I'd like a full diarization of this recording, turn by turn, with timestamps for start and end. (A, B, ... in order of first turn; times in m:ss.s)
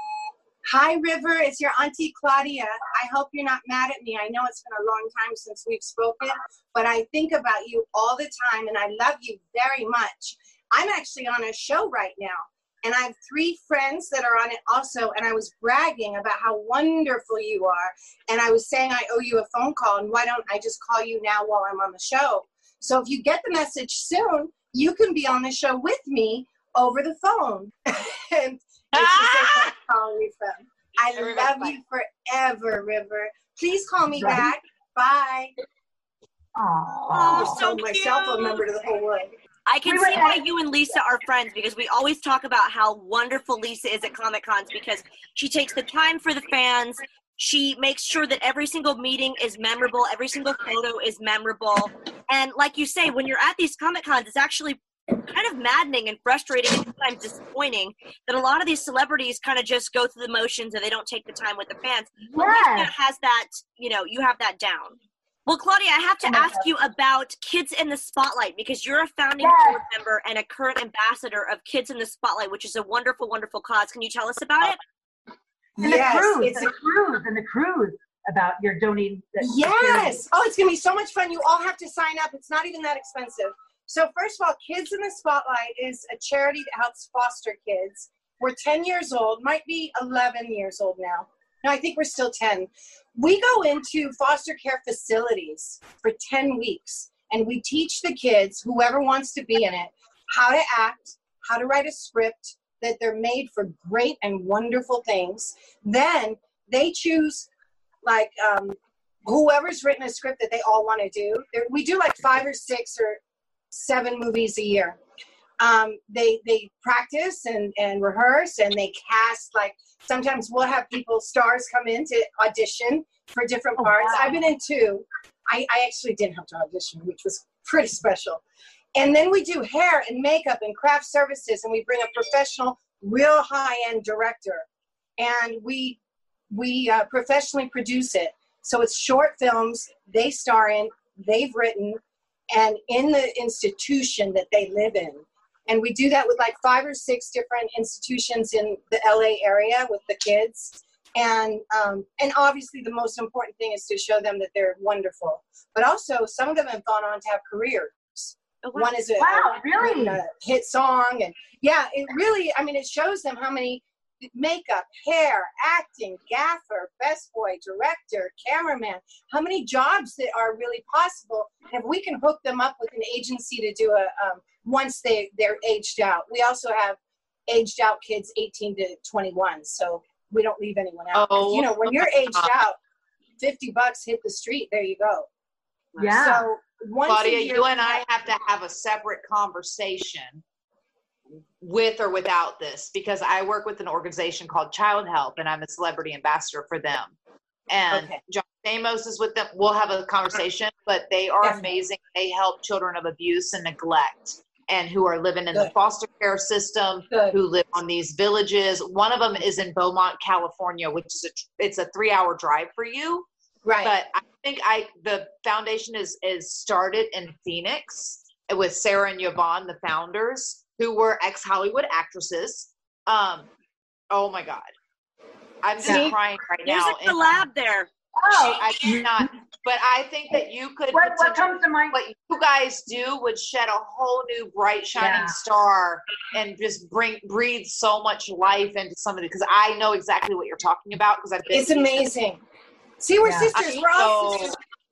0:00.6-0:35.5 A
0:28.9-0:29.7 B
0:31.1-0:31.8 B
0:34.2-0:34.5 C
0:36.6-0:37.6 C
0:37.2-0:37.7 D
0:37.2-0:39.3 A
0:37.4-0:38.6 B
0:39.7-1:14.8 D
0:39.8-0:40.4 C
1:02.3-1:02.9 C
1:06.3-1:06.7 C
1:09.4-1:09.8 C
1:15.8-1:16.7 A
1:15.8-1:20.2 C
1:19.4-1:47.5 A
1:48.0-1:53.2 A
1:53.7-1:55.0 A
1:55.6-2:08.4 A
2:03.8-2:04.3 C
2:09.0-2:14.6 A
2:15.2-2:16.0 A
2:16.5-3:02.8 A
2:38.6-2:39.0 D
2:39.2-2:40.2 C
3:01.1-3:02.6 B
3:03.4-3:05.3 A
3:05.9-3:06.3 D
3:06.0-3:06.5 C
3:06.1-3:08.0 A
3:07.1-3:10.4 B
3:11.6-3:17.1 B
3:17.7-3:33.3 B
3:17.9-3:18.2 A
3:21.4-3:21.7 A
3:27.1-3:27.4 A
3:33.6-3:33.9 A
3:33.8-3:43.5 B
3:44.1-3:44.7 B
3:45.6-3:47.4 B
3:45.8-3:46.1 C
3:45.8-3:46.2 A
3:46.6-3:47.9 D
3:48.2-3:49.3 C
3:48.3-4:02.1 B
3:50.9-3:52.0 C
3:55.0-3:55.4 C
4:01.5-4:02.4 A
4:03.0-4:04.6 A
4:03.2-4:03.5 C
4:03.5-4:04.6 B